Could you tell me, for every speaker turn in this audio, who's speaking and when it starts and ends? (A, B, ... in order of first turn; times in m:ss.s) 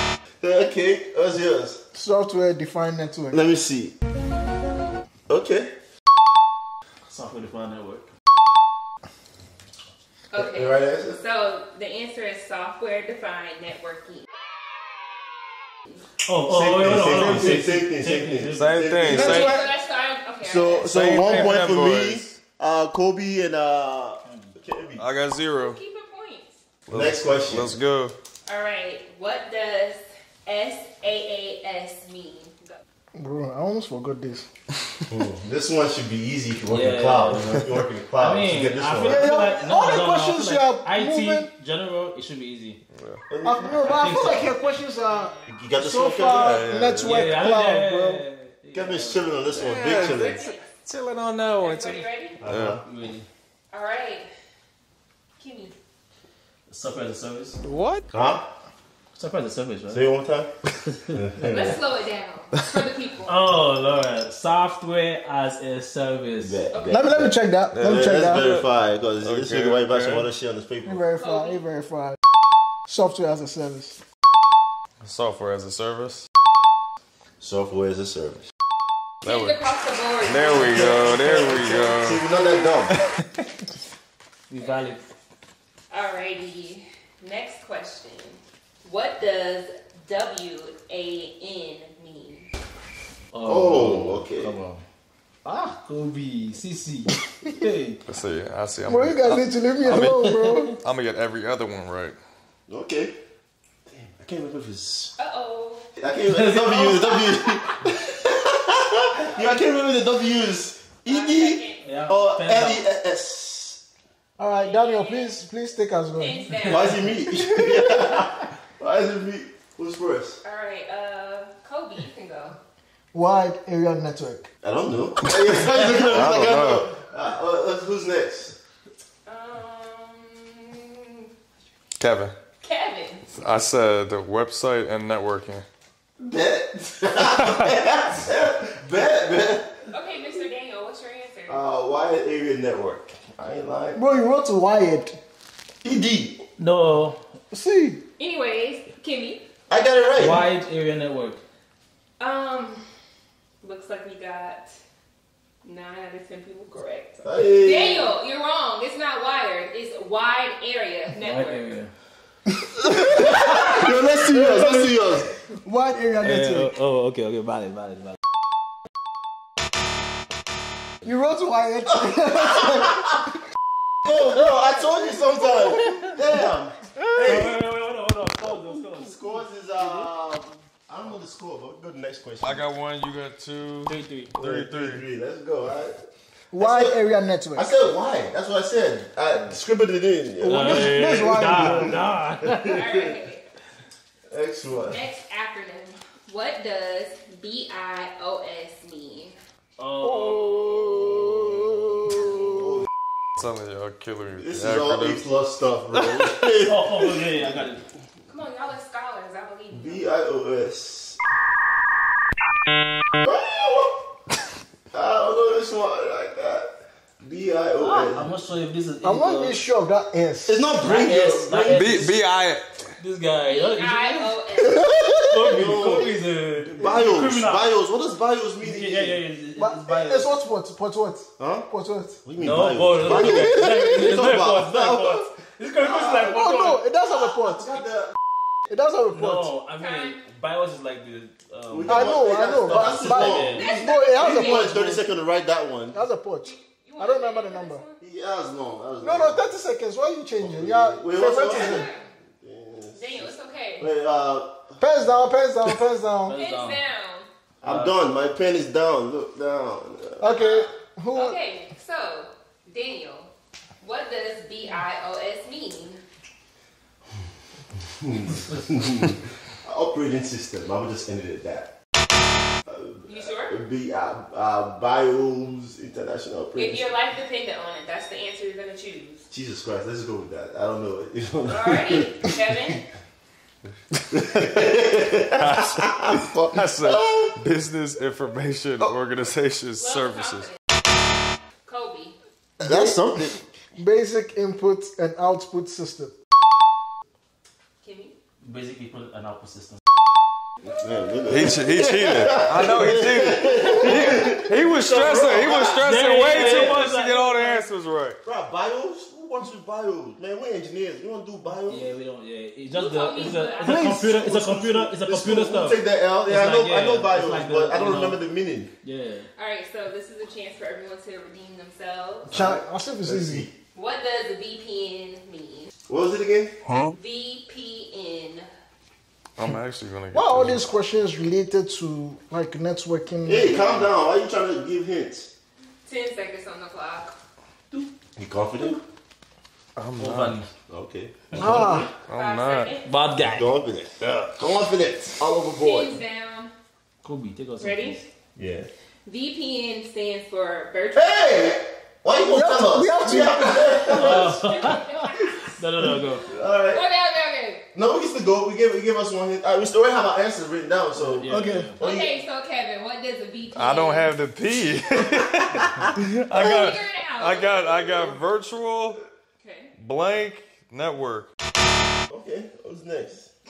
0:00.4-0:01.8 A
0:01.9-0:03.4 B
0:03.3-0:04.0 A
0:05.3-0:05.7 A
0:07.1-0:08.1 C
0:10.3-0:14.3 D
0:10.4-0:11.2 A
0:16.2-0:18.8 C
0:16.4-0:19.6 A
0:17.0-0:17.7 E
0:18.5-0:19.6 E
0:19.1-0:20.9 D
0:19.1-0:19.6 B
0:20.4-0:25.0 A
0:20.8-0:22.4 E
0:24.2-0:24.5 C
0:25.0-0:25.8 E
0:25.6-0:26.6 D
0:26.9-0:28.1 E
0:26.9-0:27.7 A
0:28.4-0:32.8 D
0:33.2-0:34.5 B
0:35.1-0:39.3 A
0:36.7-0:42.8 C
0:39.0-0:41.5 B
0:42.9-0:43.2 E
0:43.3-0:44.4 A
0:43.4-0:48.2 B
0:43.8-0:44.5 C
0:45.5-0:46.6 A
0:46.3-0:47.3 E
0:47.0-0:49.8 C
0:48.7-0:50.4 A
0:49.6-0:52.8 E
0:49.9-0:50.7 D
0:51.6-0:52.4 D
0:52.4-0:52.8 A
0:52.8-0:53.3 C
0:53.7-0:54.3 D
0:55.4-0:55.8 D
0:56.7-0:57.6 C
0:57.7-0:58.0 E
0:58.1-0:58.5 A
0:59.1-1:00.0 C
0:59.9-1:00.5 A
1:01.1-1:01.7 A
1:01.4-1:03.4 D
1:03.2-1:06.6 C
1:06.4-1:11.0 A
1:06.7-1:07.0 D
1:06.9-1:08.5 B
1:07.7-1:08.7 E
1:09.2-1:10.2 E
1:10.8-1:12.2 B
1:11.2-1:11.6 D
1:12.9-1:14.0 B
1:15.0-1:16.2 E
1:17.4-1:18.5 A
1:19.2-1:21.2 D
1:19.2-1:19.5 E
1:20.2-1:22.3 E
1:20.8-1:22.9 A
1:24.5-1:25.0 C
1:25.9-1:32.5 D
1:33.3-1:34.8 C
1:33.4-1:34.5 A
1:35.4-1:38.0 C
1:38.1-1:42.2 E
1:38.8-1:40.8 B
1:42.7-1:43.2 A
1:43.9-1:45.1 A
1:45.2-1:45.8 D
1:45.9-1:53.8 A
1:46.3-1:47.1 C
1:47.1-1:47.9 D
1:51.0-1:52.0 D
1:51.8-1:52.8 C
1:54.4-1:58.2 B
1:54.5-1:55.4 D
1:56.2-1:57.1 D
1:56.6-2:00.4 A
2:00.4-2:02.6 D
2:03.1-2:04.5 B
2:04.6-2:08.6 A
2:05.2-2:06.9 E
2:09.2-2:11.3 D
2:12.0-2:12.3 E
2:12.6-2:13.2 D
2:13.3-2:15.6 E
2:16.2-2:19.8 A
2:19.9-2:21.6 D
2:21.5-2:24.0 A
2:23.9-2:25.2 B
2:25.8-2:26.4 A
2:26.6-2:27.2 C
2:27.5-2:28.0 B
2:28.2-2:29.4 D
2:29.7-2:30.5 A
2:30.1-2:31.4 C
2:32.2-2:32.8 D
2:33.6-2:34.7 D
2:35.6-2:41.8 D
2:37.2-2:38.1 A
2:41.1-2:41.9 C
2:42.8-2:43.4 B
2:42.9-2:45.3 A
2:43.4-2:43.9 D
2:44.0-2:44.9 C
2:44.2-2:44.7 B
2:45.5-2:46.7 B
2:46.2-2:48.2 C
2:51.0-2:53.2 B
2:54.0-2:57.6 A
2:57.2-2:59.4 C
2:58.4-3:02.6 A
3:02.4-3:05.1 E
3:03.9-3:04.3 C
3:04.3-3:06.0 A
3:06.5-3:07.7 B
3:06.6-3:07.0 A
3:07.5-3:12.0 A
3:10.4-3:12.0 B
3:10.4-3:12.8 C
3:12.6-3:12.9 A
3:12.6-3:13.4 D
3:14.3-3:15.0 A
3:14.7-3:19.3 D
3:19.8-3:21.8 C
3:22.5-3:22.8 A
3:23.4-3:25.3 E
3:24.4-3:27.4 A
3:26.1-3:27.8 C
3:28.3-3:30.1 D
3:29.7-3:31.2 A
3:33.2-3:34.0 A
3:34.9-3:38.3 A
3:37.8-3:39.6 C
3:39.0-3:40.7 B
3:40.4-3:42.1 A
3:40.8-3:42.1 C
3:41.6-3:42.8 E
3:43.0-3:44.3 C
3:43.4-3:44.9 D
3:44.6-3:45.7 B
3:45.1-3:47.7 C
3:45.4-3:49.2 A
3:48.6-3:50.3 C
3:49.6-3:52.2 B
3:51.4-3:51.7 A
3:52.2-3:55.3 A
3:52.4-3:56.8 C
3:56.0-3:57.8 B
3:57.5-3:58.1 A
3:58.7-3:59.5 B
3:59.1-4:03.7 C
3:59.8-4:00.2 D
4:01.7-4:06.0 A
4:01.8-4:05.0 B
4:03.5-4:04.7 D
4:05.9-4:07.8 B
4:06.4-4:08.0 D
4:08.0-4:09.4 A
4:09.0-4:11.8 B
4:10.4-4:11.9 A
4:11.4-4:12.1 D
4:12.4-4:14.8 A
4:12.9-4:13.9 D
4:14.8-4:16.4 B
4:16.2-4:16.8 C
4:16.3-4:17.3 D
4:17.6-4:20.4 A
4:17.6-4:17.9 C
4:20.2-4:21.4 B
4:20.3-4:26.0 D
4:28.0-4:31.7 A
4:32.6-4:36.9 A
4:33.1-4:33.6 D
4:36.6-4:39.2 D
4:39.3-4:42.2 A
4:41.5-4:42.8 D
4:44.1-4:47.3 A
4:44.2-4:44.5 E
4:45.3-4:50.5 E
4:49.8-4:50.6 D
4:51.6-4:52.2 D
4:52.6-4:53.4 A
4:52.6-4:53.2 B
4:53.7-4:56.2 B
4:57.8-4:58.1 D
4:58.4-4:59.8 C
5:00.6-5:06.8 A
5:01.3-5:08.2 E
5:05.6-5:07.6 C
5:08.2-5:11.9 A
5:11.7-5:18.2 C
5:12.7-5:13.9 D
5:13.6-5:14.9 B
5:15.0-5:18.7 A
5:18.8-5:19.3 C
5:19.3-5:22.3 D
5:22.3-5:23.5 A
5:22.3-5:23.5 B
5:23.7-5:25.7 D
5:25.9-5:26.6 A
5:27.0-5:28.4 D
5:29.4-5:30.7 E
5:30.1-5:33.6 B
5:33.2-5:35.3 A
5:33.6-5:33.9 C
5:35.8-5:37.1 D
5:38.2-5:38.8 A
5:39.8-5:40.4 E
5:40.0-5:40.5 C
5:40.7-5:41.9 A
5:41.3-5:41.6 C
5:41.4-5:41.9 B
5:41.8-5:42.7 E
5:42.1-5:42.9 D
5:42.8-5:43.5 C
5:43.2-5:46.0 A
5:44.0-5:44.4 E
5:45.6-5:46.5 D
5:47.0-5:48.0 C
5:47.6-5:48.0 D
5:48.4-5:48.7 A
5:49.0-5:51.5 D
5:50.9-5:54.4 A
5:52.2-5:54.1 B
5:53.8-5:57.6 D
5:53.9-5:55.0 C
5:55.5-5:56.2 C
5:56.3-5:56.8 A
5:57.7-6:02.1 A
6:01.0-6:01.8 C
6:01.3-6:01.7 B
6:01.8-6:04.2 D
6:03.5-6:09.0 E
6:06.3-6:08.2 D
6:09.4-6:09.7 D
6:09.8-6:11.3 E
6:12.1-6:13.3 A